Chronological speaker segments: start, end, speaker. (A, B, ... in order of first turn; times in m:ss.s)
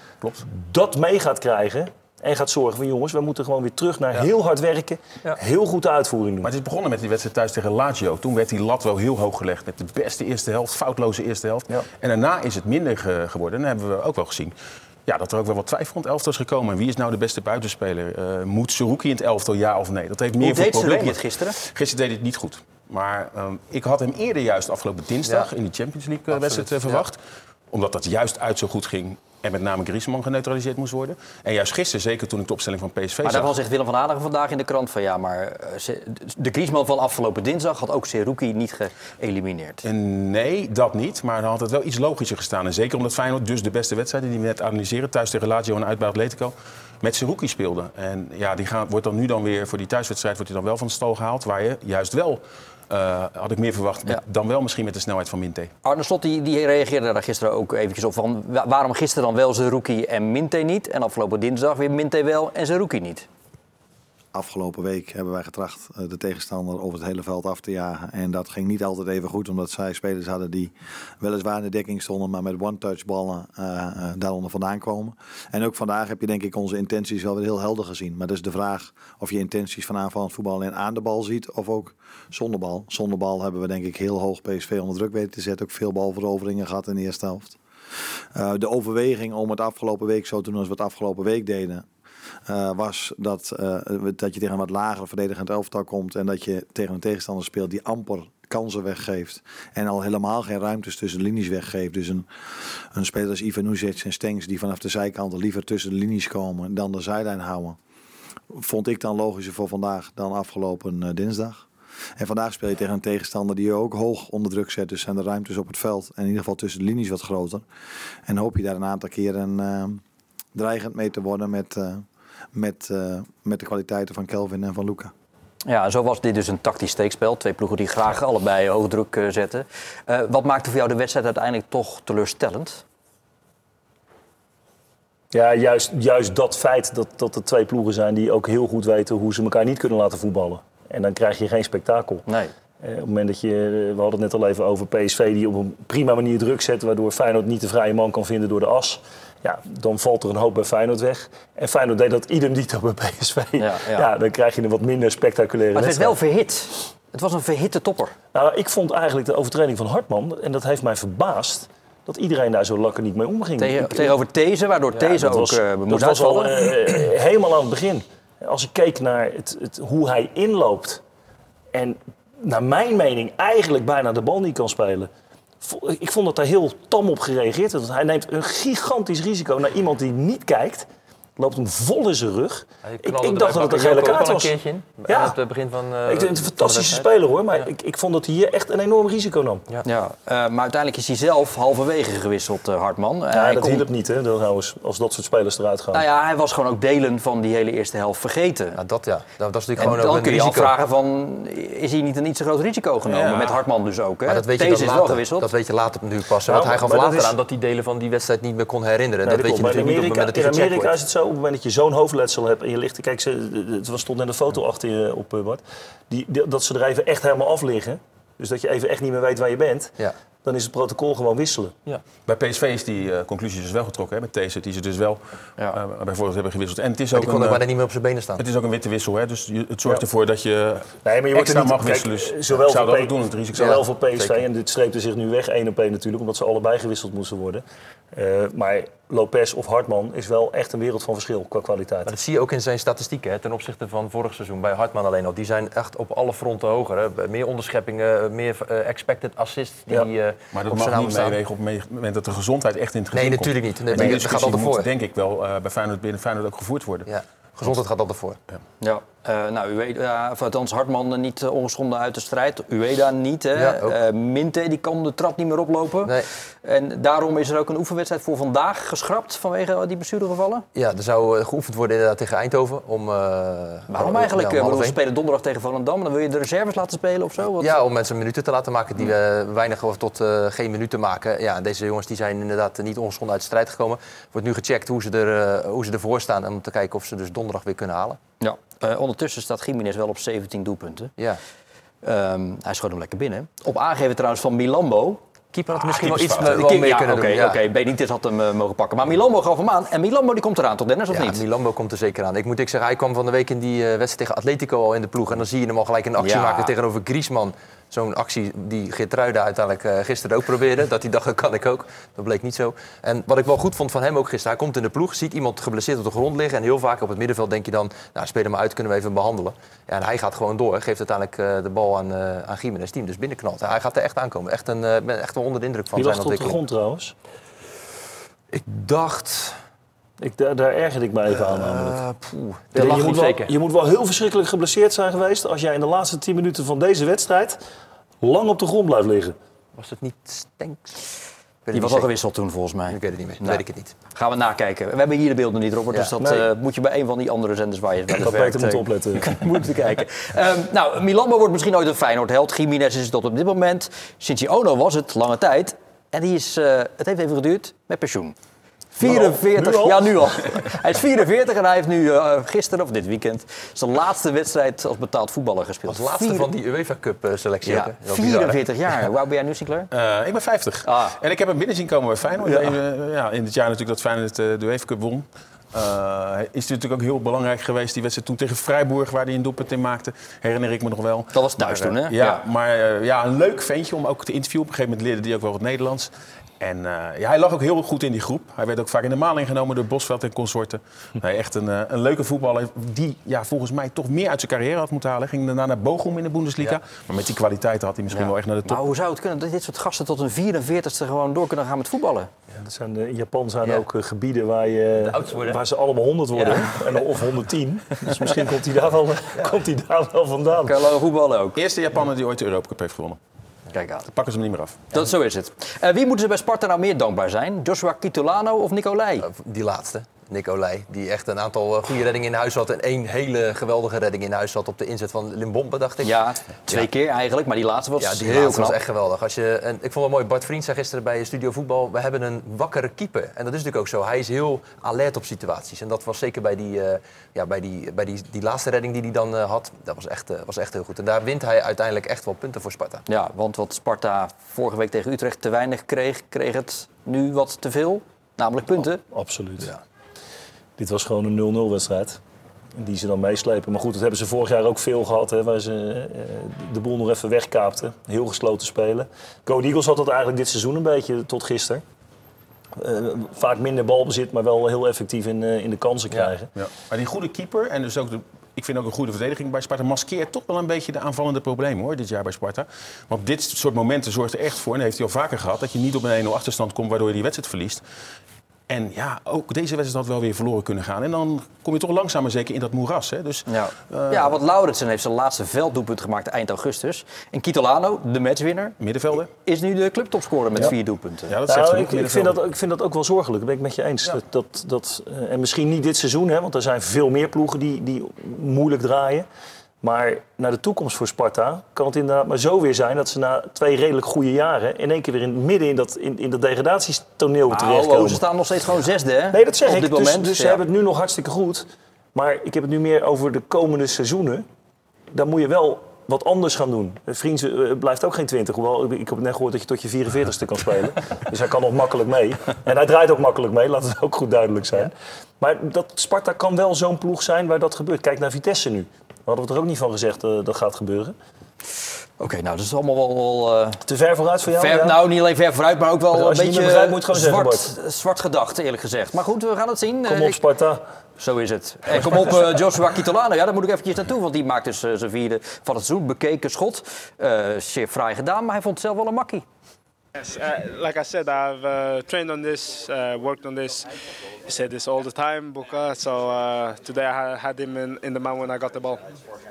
0:00.4-0:06.5 A
0:06.4-0:14.5 B
0:15.1-0:27.2 B
0:20.4-0:21.6 C
0:26.3-0:27.0 D
0:27.7-0:33.5 B
0:33.2-0:39.8 C
0:39.8-0:55.7 B
0:55.8-1:03.3 C
1:04.3-1:27.6 E
1:28.4-1:31.9 E
1:32.5-1:47.8 E
1:48.5-1:51.7 E
1:52.2-1:57.6 E
1:58.3-2:00.0 E
2:00.5-2:05.1 E
2:05.6-2:12.8 C
2:15.3-2:22.2 A
2:22.8-2:36.2 A
2:33.6-2:34.1 C
2:35.7-2:38.2 C
2:38.3-2:44.2 A
2:43.6-2:46.7 C
2:45.0-2:51.0 A
2:51.7-2:55.1 A
2:55.6-3:04.5 A
3:02.8-3:07.7 D
3:05.0-3:05.4 A
3:06.0-3:09.6 A
3:09.8-3:13.9 C
3:13.3-3:16.0 A
3:15.9-3:18.8 C
3:18.8-3:20.7 D
3:19.8-3:25.5 C
3:23.1-3:23.6 B
3:24.3-3:30.9 D
3:26.4-3:27.3 A
3:29.2-3:41.8 A
3:42.3-3:47.6 B
3:47.2-3:48.4 D
3:48.4-3:53.8 B
3:51.0-4:02.1 A
3:53.6-3:54.4 D
4:02.1-4:11.4 D
4:10.5-4:17.1 B
4:13.1-4:14.9 D
4:17.1-4:18.4 D
4:18.8-4:30.6 C
4:23.5-4:24.0 D
4:30.8-4:35.0 D
4:33.9-4:37.8 C
4:37.6-4:48.2 D
4:48.4-4:51.1 C
4:52.0-4:55.2 C
4:55.5-4:57.6 D
4:55.7-4:56.7 B
4:56.4-5:01.4 C
5:01.1-5:26.6 D
5:06.2-5:06.7 C
5:25.9-5:27.1 A
5:28.5-5:29.6 D
5:30.2-5:32.0 A
5:31.3-5:33.5 D
5:32.7-5:37.6 A
5:38.2-5:39.4 A
5:39.8-5:41.0 D
5:41.6-5:42.1 D
5:41.7-5:43.6 C
5:42.9-5:44.0 D
5:44.1-5:58.4 C
5:46.2-5:46.5 A
5:48.2-5:49.3 A
5:59.0-6:06.5 C
5:59.0-6:00.2 A
6:05.9-6:08.6 D
6:07.7-6:09.9 C
6:09.9-6:38.8 B
6:10.9-6:11.2 C
6:21.3-6:22.4 C
6:38.2-6:42.3 C
6:42.6-6:50.8 A
6:45.0-6:45.6 D
6:46.3-6:47.1 D
6:48.1-6:48.5 D
6:50.6-6:51.6 C
6:51.6-6:53.2 B
6:53.7-6:54.1 C
6:54.1-6:54.8 B
6:54.9-6:59.3 C
6:59.2-7:06.9 D
7:06.0-7:08.8 C
7:08.0-7:23.0 D
7:23.1-7:29.0 C
7:29.1-7:29.7 A
7:30.8-7:32.2 A
7:32.8-7:41.8 A
7:42.8-7:46.5 A
7:46.6-7:57.8 B
7:58.7-8:04.4 B
8:03.5-8:08.8 C
8:08.8-8:09.3 B
8:09.4-8:11.3 C
8:11.3-8:12.4 B
8:11.5-8:19.3 A
8:19.8-8:28.2 A
8:27.5-8:30.6 C
8:29.3-8:34.4 A
8:35.1-8:51.2 A
8:52.2-8:53.8 C
8:53.8-8:55.0 A
8:54.5-9:00.4 C
8:56.1-8:57.7 A
9:00.1-9:00.8 A
9:01.2-9:09.4 C
9:10.2-9:13.8 F
9:14.5-9:19.0 F